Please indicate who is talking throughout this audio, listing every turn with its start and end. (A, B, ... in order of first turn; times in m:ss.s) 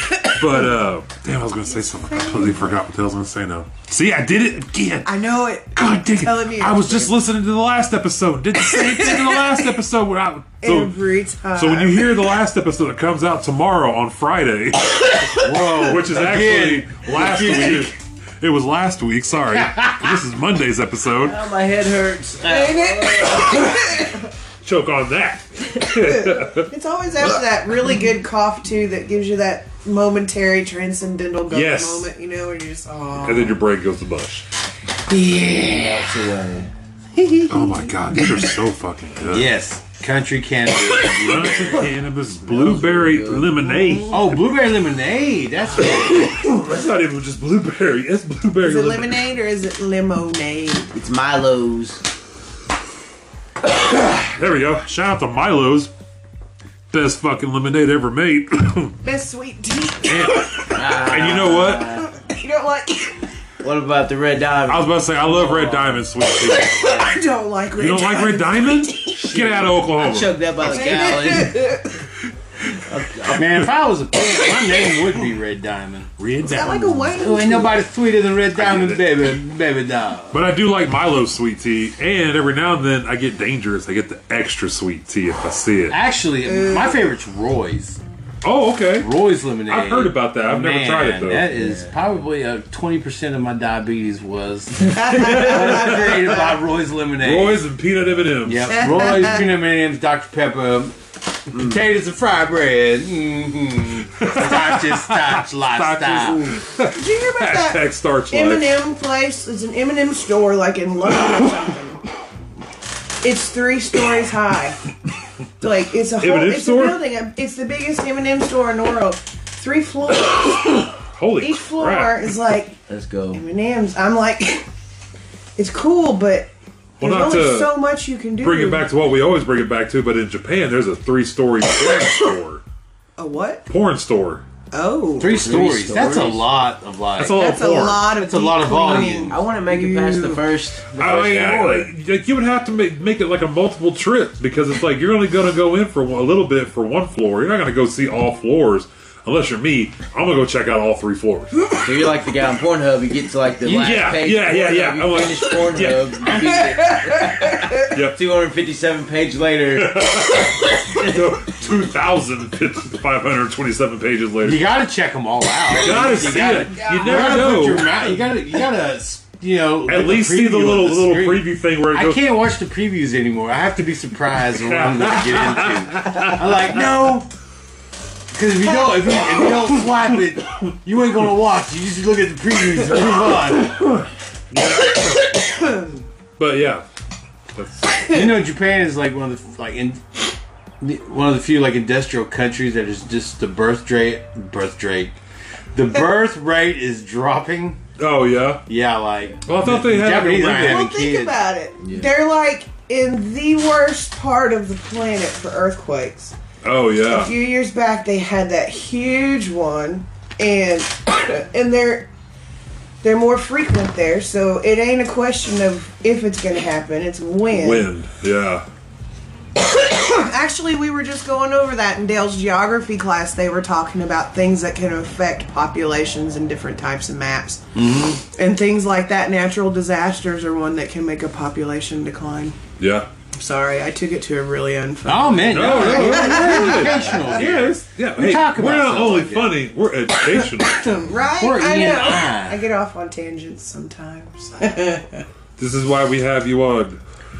0:00.2-0:00.7 A
0:00.2-0:11.0 B
0:02.1-0:02.6 A
0:05.0-0:07.1 A
0:08.6-0:09.6 A
0:10.6-0:12.3 A
0:11.5-0:21.4 B
0:15.4-0:17.9 C
0:19.5-0:20.2 C
0:21.2-0:23.6 D
0:22.4-0:22.7 C
0:22.4-0:24.2 A
0:24.6-0:26.7 B
0:26.0-0:33.6 A
0:31.5-0:32.1 B
0:33.2-0:34.4 B
0:35.1-0:36.0 A
0:35.8-0:36.7 D
0:35.8-0:36.2 C
0:37.5-0:39.5 B
0:39.3-0:41.9 C
0:41.1-0:44.2 B
0:42.2-0:43.8 D
0:44.1-0:46.4 C
0:45.8-0:49.2 B
0:48.6-0:50.9 A
0:50.9-0:52.0 D
0:53.6-0:55.9 B
0:56.9-0:59.0 B
0:59.0-1:01.4 A
1:00.0-1:02.0 B
1:00.7-1:02.1 D
1:01.9-1:03.2 A
1:03.6-1:06.1 D
1:04.7-1:07.0 B
1:06.8-1:09.4 A
1:07.7-1:10.4 B
1:09.2-1:11.7 D
1:10.6-1:11.9 A
1:12.8-1:13.6 D
1:13.3-1:16.1 C
1:16.2-1:17.1 B
1:16.4-1:17.8 A
1:17.2-1:20.4 C
1:18.5-1:19.2 B
1:20.3-1:26.0 B
1:25.9-1:28.0 C
1:26.4-1:27.0 A
1:28.4-1:31.5 B
1:29.0-1:37.6 C
1:31.6-1:31.9 D
1:34.9-1:36.6 A
1:35.1-1:36.3 B
1:37.2-1:39.2 B
1:38.4-1:41.0 C
1:38.7-1:39.5 A
1:41.5-1:46.6 C
1:44.2-1:48.8 B
1:46.9-1:52.0 A
1:53.2-1:54.8 A
1:55.6-2:02.8 A
1:56.2-1:57.0 B
2:01.0-2:02.2 B
2:02.9-2:03.4 D
2:03.3-2:04.7 A
2:05.6-2:06.5 A
2:07.0-2:07.8 B
2:07.0-2:08.8 A
2:08.4-2:12.6 B
2:13.2-2:13.6 A
2:13.7-2:14.4 B
2:14.7-2:15.4 A
2:15.2-2:17.4 C
2:15.2-2:16.5 D
2:17.2-2:18.1 B
2:17.3-2:20.4 A
2:18.1-2:19.4 C
2:18.8-2:21.9 D
2:21.0-2:31.8 B
2:31.8-2:40.1 D
2:33.6-2:34.0 C
2:33.7-2:36.4 B
2:36.6-2:37.7 A
2:37.9-2:38.2 B
2:39.7-2:44.7 B
2:44.4-2:57.3 C
2:45.7-2:48.0 B
2:46.6-2:47.3 A
2:49.8-2:52.3 B
2:54.4-2:56.8 B
2:58.3-3:03.8 C
3:03.7-3:05.3 B
3:06.4-3:06.8 B
3:07.5-3:08.1 B
3:08.1-3:15.2 C
3:15.7-3:17.8 C
3:18.0-3:18.6 B
3:18.7-3:21.4 C
3:19.4-3:20.8 B
3:20.6-3:26.3 A
3:21.8-3:22.1 D
3:26.6-3:27.3 B
3:27.0-3:32.1 A
3:33.0-3:37.9 A
3:37.5-3:38.6 B
3:39.7-3:47.6 A
3:47.7-3:48.2 C
3:48.2-3:52.6 A
3:52.8-3:53.1 B
3:53.3-3:57.6 A
3:55.0-3:59.6 C
3:55.5-4:00.9 B
4:00.6-4:05.2 A
4:01.4-4:02.6 C
4:05.6-4:07.0 B